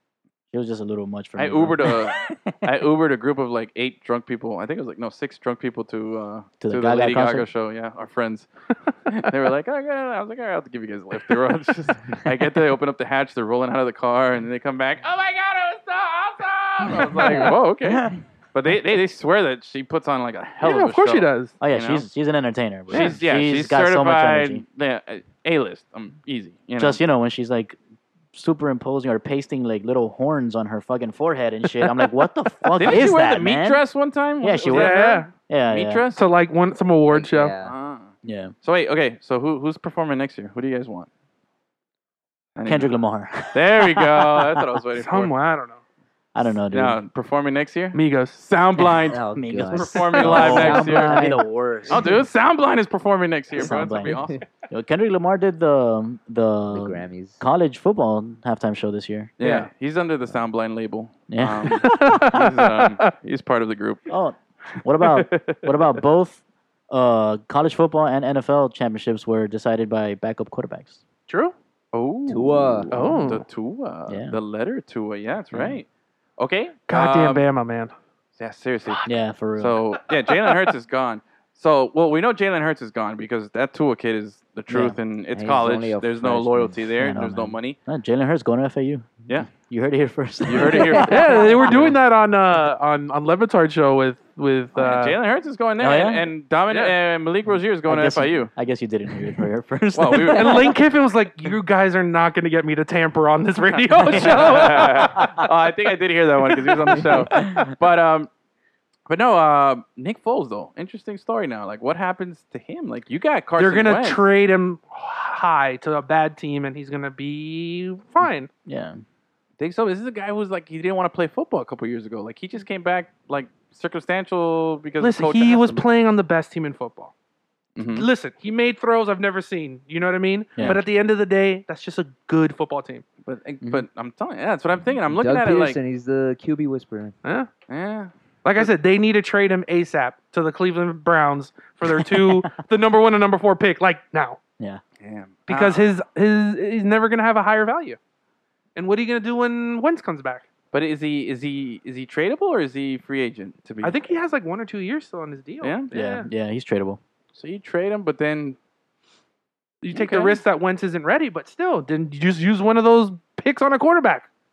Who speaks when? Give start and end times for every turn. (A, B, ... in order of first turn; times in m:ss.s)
0:00.5-0:02.6 A
0:01.4-0:08.5 B
0:06.6-0:07.4 A
0:09.1-0:22.1 B
0:17.2-0:17.5 C
0:20.6-0:21.6 D
0:21.6-0:24.6 A
0:22.9-0:27.0 B
0:26.8-0:27.8 A
0:28.3-0:33.8 A
0:31.8-0:32.1 D
0:32.8-0:36.2 B
0:34.4-0:36.0 A
0:34.7-0:35.3 D
0:36.1-0:37.5 D
0:37.1-0:37.7 C
0:37.6-0:38.1 B
0:38.2-0:38.5 A
0:38.6-0:41.1 B
0:42.6-0:42.9 B
0:42.6-0:44.6 A
0:43.5-0:45.3 B
0:45.0-0:45.8 D
0:46.3-0:47.0 A
0:46.7-0:51.3 B
0:47.9-0:48.4 D
0:49.0-0:52.1 A
0:49.1-0:52.2 C
0:51.9-0:54.4 B
0:53.6-0:54.4 C
0:53.6-0:59.3 A
0:56.7-0:57.4 C
0:59.4-1:04.0 B
0:59.4-0:59.7 D
1:01.3-1:02.2 A
1:01.8-1:03.1 D
1:04.1-1:11.0 A
1:05.0-1:06.0 B
1:11.3-1:11.5 D
1:11.9-1:15.8 B
1:12.3-1:12.9 C
1:12.9-1:13.4 D
1:14.1-1:14.4 A
1:16.4-1:17.4 B
1:16.9-1:17.9 D
1:18.4-1:19.0 B
1:19.0-1:19.8 A
1:19.6-1:27.8 B
1:24.7-1:25.0 A
1:25.3-1:26.9 C
1:27.0-1:32.0 A
1:30.4-1:31.8 B
1:31.0-1:35.2 D
1:34.7-1:38.5 B
1:35.8-1:36.3 A
1:36.7-1:37.0 D
1:37.8-1:40.7 A
1:39.9-1:40.7 B
1:40.3-1:45.4 D
1:43.7-1:48.3 B
1:44.0-1:45.4 A
1:46.8-1:47.3 D
1:47.1-1:47.7 A
1:49.1-1:54.2 B
1:53.6-1:58.5 D
1:58.2-1:59.0 A
1:59.6-2:05.8 B
2:05.0-2:07.1 D
2:07.8-2:08.1 B
2:07.9-2:13.0 D
2:13.2-2:15.8 B
2:15.0-2:17.2 C
2:17.2-2:17.5 D
2:17.7-2:18.7 B
2:18.4-2:24.4 D
2:21.8-2:22.5 A
2:25.0-2:25.9 B
2:25.5-2:28.0 D
2:28.7-2:30.4 D
2:30.7-2:34.0 B
2:33.8-2:36.3 D
2:35.6-2:35.9 B
2:35.9-2:37.0 A
2:37.3-2:38.6 B
2:39.8-2:44.3 D
2:39.9-2:40.4 B